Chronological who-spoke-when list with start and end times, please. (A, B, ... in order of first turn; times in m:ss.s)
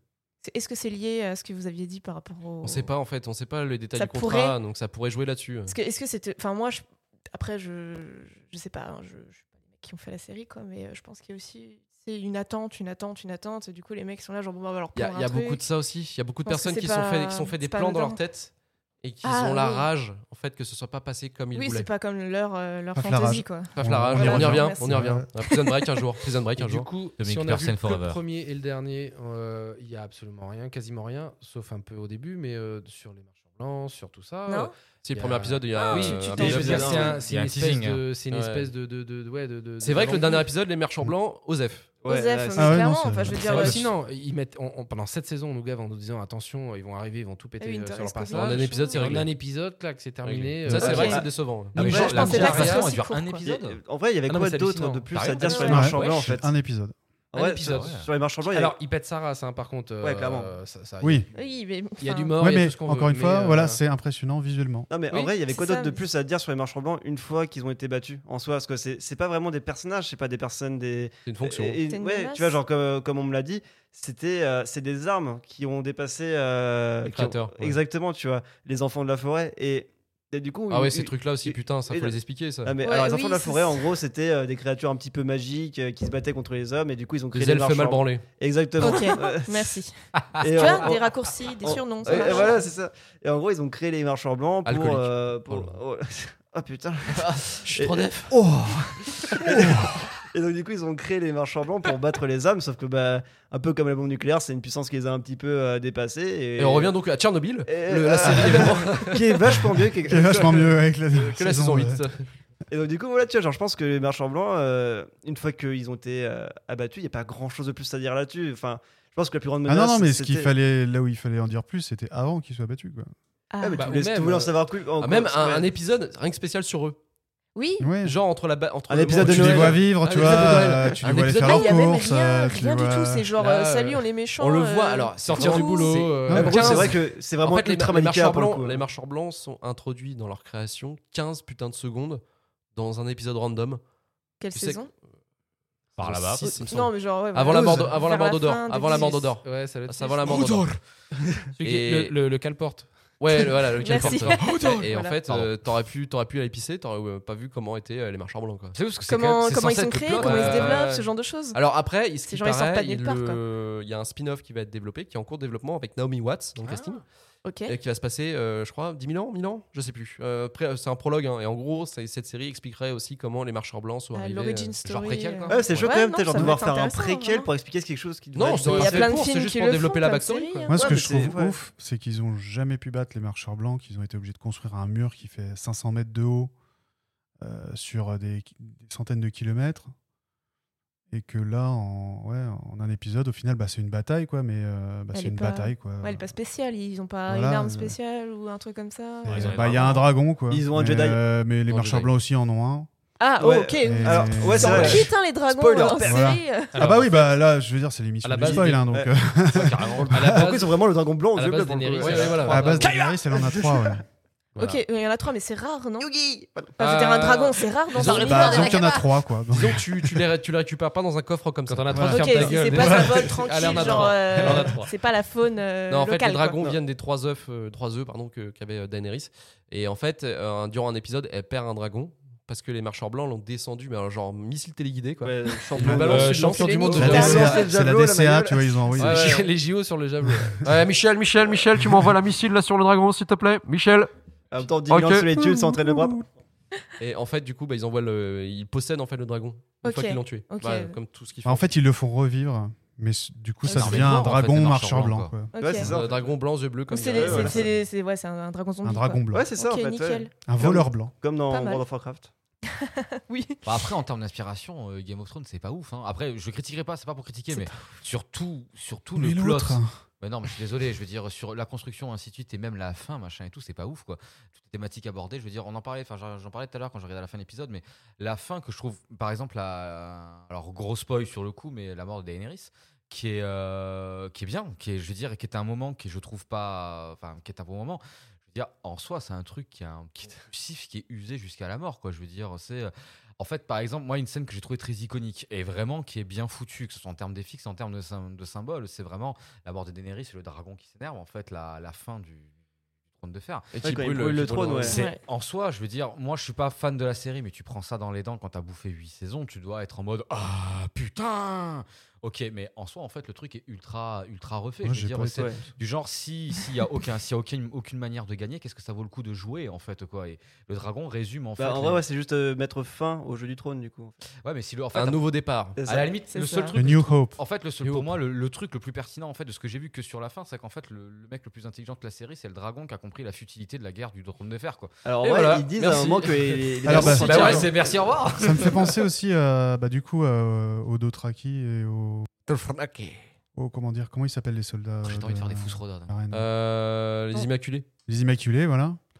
0:00.4-0:02.9 A
0:02.6-0:05.7 B
0:03.9-0:04.6 A
0:05.7-0:15.6 A
0:14.9-0:21.9 B
0:16.4-0:18.2 A
0:19.2-0:19.9 A
0:21.5-0:25.9 A
0:22.9-0:25.3 C
0:23.8-0:26.9 B
0:26.6-0:40.5 D
0:27.2-0:28.2 E
0:34.5-0:34.7 A
0:35.0-0:37.1 B
0:35.8-0:36.9 A
0:36.4-0:37.2 F
0:36.4-0:38.0 E
0:38.3-0:38.7 B
0:39.8-0:41.9 B
0:42.0-0:42.9 F
0:42.1-0:43.8 A
0:42.6-0:43.7 C
0:43.4-0:53.0 D
0:47.6-0:49.2 A
0:48.3-0:49.3 B
0:50.2-0:51.8 B
0:50.7-0:51.0 C
0:50.8-0:52.7 F
0:50.8-0:51.2 A
0:51.7-0:53.8 E
0:51.8-0:53.4 A
0:53.4-0:56.5 F
0:54.3-0:56.1 D
0:55.1-0:56.2 E
0:55.4-0:55.9 A
0:55.6-0:57.0 C
0:57.3-0:58.8 F
0:57.3-1:01.5 D
0:57.7-0:58.1 E
1:00.0-1:00.5 F
1:01.0-1:01.3 C
1:01.3-1:02.3 A
1:02.0-1:03.8 D
1:02.4-1:04.9 C
1:04.9-1:29.8 F
1:05.4-1:06.0 A
1:11.3-1:11.8 B
1:11.9-1:12.6 A
1:17.0-1:17.8 B
1:20.7-1:22.7 B
1:22.8-1:23.8 A
1:27.3-1:28.2 B
1:28.8-1:32.6 A
1:30.2-1:30.7 E
1:30.4-1:46.9 F
1:32.1-1:32.6 B
1:34.6-1:35.7 B
1:37.1-1:38.3 B
1:46.6-1:49.5 B
1:47.7-1:50.7 F
1:48.2-1:48.7 C
1:49.6-1:52.0 C
1:50.1-1:52.2 B
1:52.7-2:00.5 F
1:59.6-2:03.1 C
2:03.5-2:03.9 A
2:03.6-2:05.7 F
2:03.8-2:04.6 D
2:05.0-2:07.0 B
2:07.6-2:07.9 A
2:07.8-2:08.2 C
2:08.0-2:11.8 B
2:08.9-2:09.9 F
2:09.1-2:13.3 C
2:11.4-2:15.9 A
2:13.4-2:13.8 B
2:14.4-2:22.2 B
2:15.2-2:17.0 D
2:16.3-2:16.7 C
2:16.3-2:18.9 F
2:22.7-2:23.8 B
2:24.4-2:24.9 A
2:24.5-2:24.8 B
2:26.0-2:26.5 E
2:26.0-2:30.8 B
2:26.4-2:29.3 A
2:27.6-2:27.8 C
2:28.9-2:30.5 D
2:30.3-2:30.8 E
2:31.6-2:32.9 D
2:31.6-2:32.1 B
2:33.2-2:38.8 B
2:33.8-2:35.2 A
2:34.1-2:35.6 E
2:38.7-2:40.9 E
2:39.1-2:41.6 A
2:40.2-2:47.0 B
2:42.2-2:43.4 A
2:46.6-2:47.0 E
2:47.4-2:47.7 A
2:47.6-2:54.8 B
2:54.1-2:57.5 A
2:54.8-2:55.9 E
2:55.5-2:59.1 F
2:58.3-3:00.7 B
2:58.7-3:00.9 A
3:00.7-3:06.5 C
3:00.7-3:01.6 F
3:07.4-3:09.9 C
3:11.1-3:16.3 C
3:15.1-3:20.0 A
3:17.3-3:18.0 C
3:19.2-3:22.9 C
3:19.3-3:20.1 E
3:20.5-3:21.2 F
3:21.7-3:22.1 B
3:23.2-3:26.8 A
3:23.4-3:26.4 F
3:23.8-3:25.1 C
3:26.0-3:30.5 C
3:26.7-3:27.4 D
3:28.2-3:28.9 D
3:28.4-3:28.6 B
3:28.4-3:29.1 F
3:29.5-3:30.1 E
3:30.1-3:32.9 D
3:30.2-3:33.9 F
3:32.0-3:32.9 B
3:32.4-3:34.0 C
3:34.6-3:36.1 A
3:36.0-3:36.8 F
3:36.8-3:39.1 A
3:36.8-3:37.7 D
3:38.0-3:40.2 C
3:38.0-3:38.6 B
3:39.5-3:44.7 B
3:41.7-3:44.9 D
3:41.9-3:42.7 C
3:42.0-3:46.6 A
3:45.9-3:57.6 B
3:55.2-3:59.3 F
3:55.8-3:57.6 D
3:55.8-3:56.2 C
3:56.4-3:57.6 A
3:56.9-3:59.4 C
3:59.0-3:59.5 B
3:59.0-4:00.7 D
4:00.6-4:04.1 B
4:04.5-4:06.2 F
4:04.9-4:05.3 B
4:07.0-4:11.8 B
4:09.8-4:11.0 A
4:11.4-4:15.9 C
4:13.7-4:15.4 E
4:13.7-4:14.1 B
4:15.5-4:15.9 A
4:15.6-4:16.3 F
4:15.8-4:17.7 B
4:16.9-4:20.3 A
4:17.1-4:17.7 F
4:18.8-4:19.5 C
4:19.3-4:22.3 F
4:20.4-4:21.1 C
4:21.5-4:21.8 A
4:22.7-4:23.7 A
4:23.6-5:02.5 E
4:29.2-4:30.0 C
5:03.1-5:03.7 E
5:03.7-5:05.0 B
5:03.8-5:05.0 F
5:04.8-5:22.0 E
5:04.9-5:05.2 A
5:14.8-5:15.7 C
5:21.6-5:24.2 F
5:24.4-5:25.2 E
5:24.9-5:25.8 B
5:25.8-5:26.1 F
5:25.8-5:34.9 E
5:26.3-5:26.8 A
5:26.7-5:27.4 C
5:27.8-5:28.1 B
5:35.0-5:37.7 F
5:35.2-5:37.7 B
5:36.8-5:37.6 C
5:37.0-5:38.9 E
5:38.3-5:42.3 C
5:42.5-5:43.2 B
5:43.6-5:46.5 C
5:45.0-5:46.1 E
5:46.3-5:47.9 B
5:48.1-5:49.0 C